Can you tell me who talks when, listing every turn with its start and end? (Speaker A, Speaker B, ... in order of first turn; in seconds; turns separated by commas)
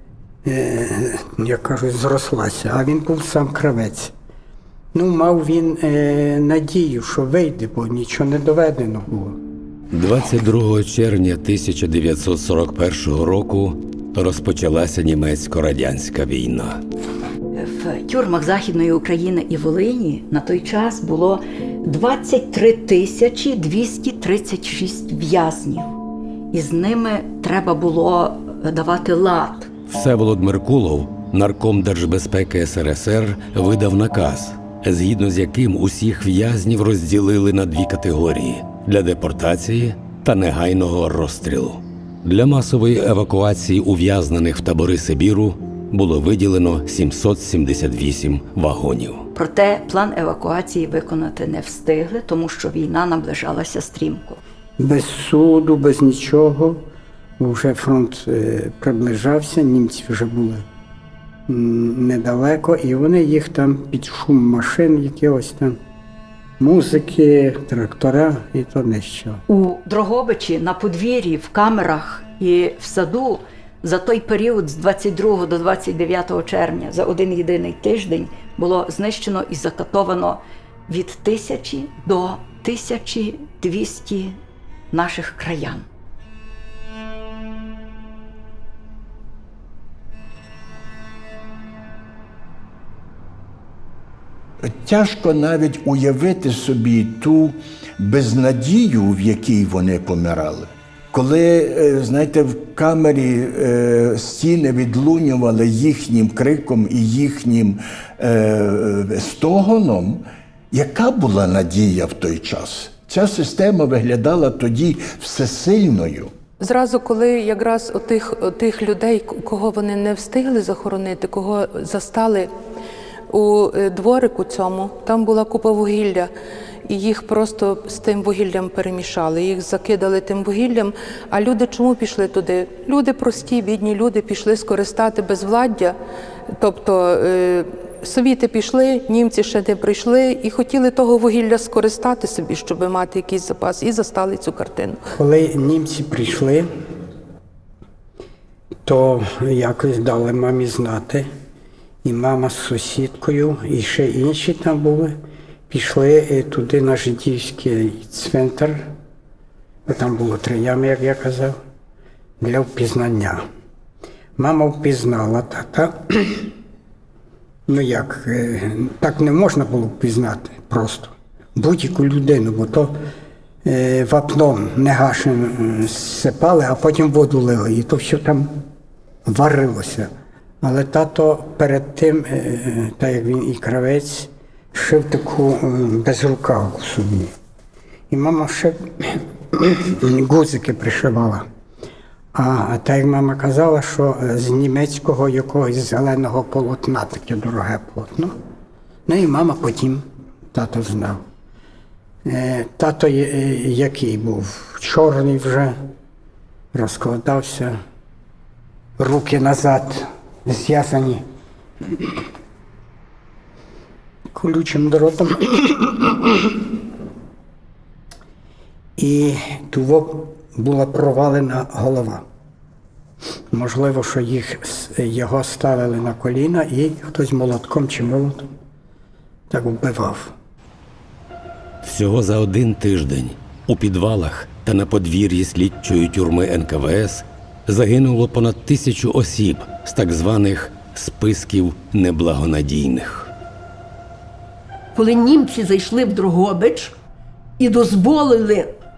Speaker A: 0.5-4.1, Speaker A: 4.9-9.4, Speaker B: 9.9-16.8, Speaker C: 17.5-26.0, Speaker C: 26.5-29.7, Speaker B: 29.9-49.2, Speaker C: 49.3-54.4, Speaker A: 54.8-56.9, Speaker A: 57.4-60.6, Speaker A: 61.5-65.8, Speaker A: 66.6-69.4, Speaker C: 69.5-84.4, Speaker C: 84.9-85.9, Speaker D: 94.6-116.3, Speaker E: 116.6-122.5, Speaker E: 123.3-126.3, Speaker E: 126.9-136.0, Speaker E: 136.6-145.1, Speaker A: 145.1-146.7, Speaker A: 148.8-151.3, Speaker A: 152.0-155.2, Speaker A: 155.7-158.9, Speaker A: 159.9-161.6, Speaker A: 162.4-163.4, Speaker A: 164.4-166.5, Speaker A: 167.7-172.9, Speaker A: 173.7-178.7, Speaker A: 179.2-180.1, Speaker A: 180.6-187.3, Speaker A: 188.1-191.4, Speaker A: 192.3-198.3, Speaker A: 199.1-201.2, Speaker A: 202.2-205.8, Speaker A: 206.7-207.8, Speaker A: 209.0-211.2, Speaker A: 211.9-212.2, Speaker A: 214.3-216.6, Speaker A: 219.0-222.2, Speaker A: 223.5-228.5, Speaker A: 229.5-230.3, Speaker B: 231.8-243.3, Speaker F: 244.9-246.9, Speaker F: 247.6-248.7